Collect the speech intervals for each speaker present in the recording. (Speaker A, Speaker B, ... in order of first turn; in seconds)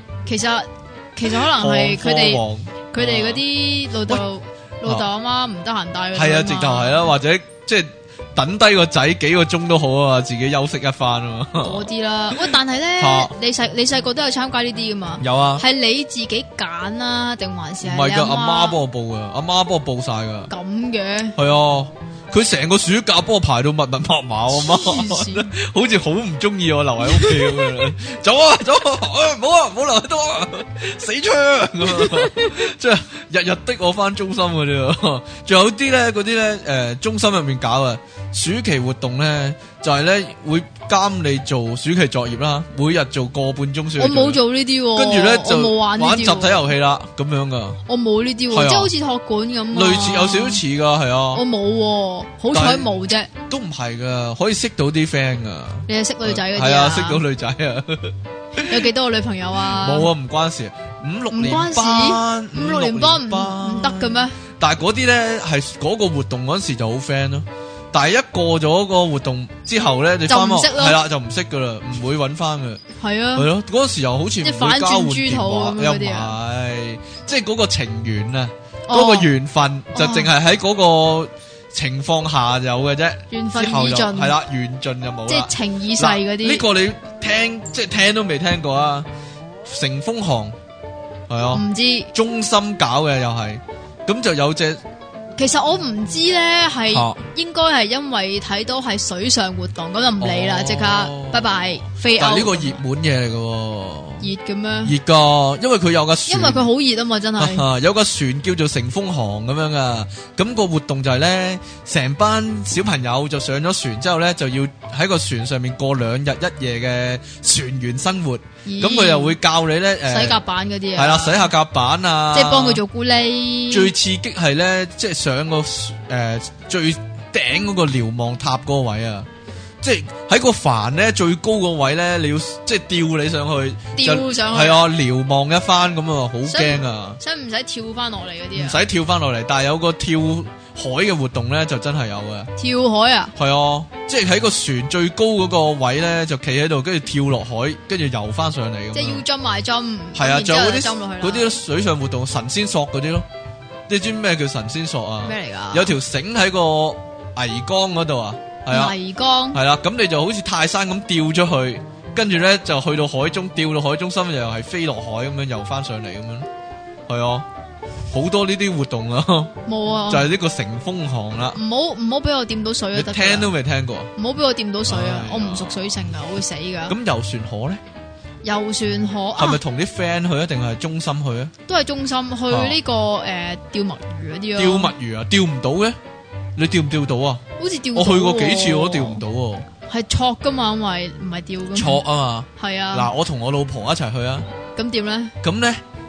Speaker A: 0.2-7.1, 11.6-18.8, 20.5-21.4, 24.5-25.5, 27.0-27.8, 31.9-32.5, 44.0-46.7, 47.9-50.6, 51.3-53.3, 55.9-57.2, 58.6-60.1, 61.3-64.3, 70.3-71.0, 73.0-73.5, 74.4-76.3, 78.9-79.3, 79.9-80.3, 83.3-84.4, 85.3-86.6, 91.5-92.1, 95.4-102.8, 104.2-104.9, 106.3-107.7, 118.7-119.4, 120.0-121.5, 122.3-123.9, 133.9-134.9, 136.4-138.8, 142.6-143.3, 148.9-151.6, 155.2-156.0, 158.7-159.6, 169.7-170.3, 171.5-173.5, 174.2-177.0, 178.4-179.6, 181.7-184.9, 187.6-189.2, 189.9-192.0, 192.6-193.1, 194.7-195.3
Speaker B: 1.4-3.4, 6.1-13.3, 15.2-15.6, 17.8-20.5, 21.4-44.4, 44.9-47.8, 48.5-48.9, 49.7-51.4, 52.5-52.9, 53.5-58.9, 59.7-72.8, 73.3-89.1, 89.6-90.5, 91.3-94.8, 96.9-97.2, 100.2-104.3, 104.8-106.7, 107.4-120.4, 120.9-122.8, 123.7-129.3, 129.8-137.2, 138.5-142.5, 143.3-149.2, 150.1-153.2, 153.9-158.9, 159.5-166.5, 167.1-167.4, 168.1-169.5, 170.1-171.6, 172.9-174.1, 174.9-176.1, 176.9-177.8, 179.3-181.5, 182.5-182.8, 184.6-186.0, 186.6-187.4, 187.9-189.7, 191.7-194.5, 195.4-195.8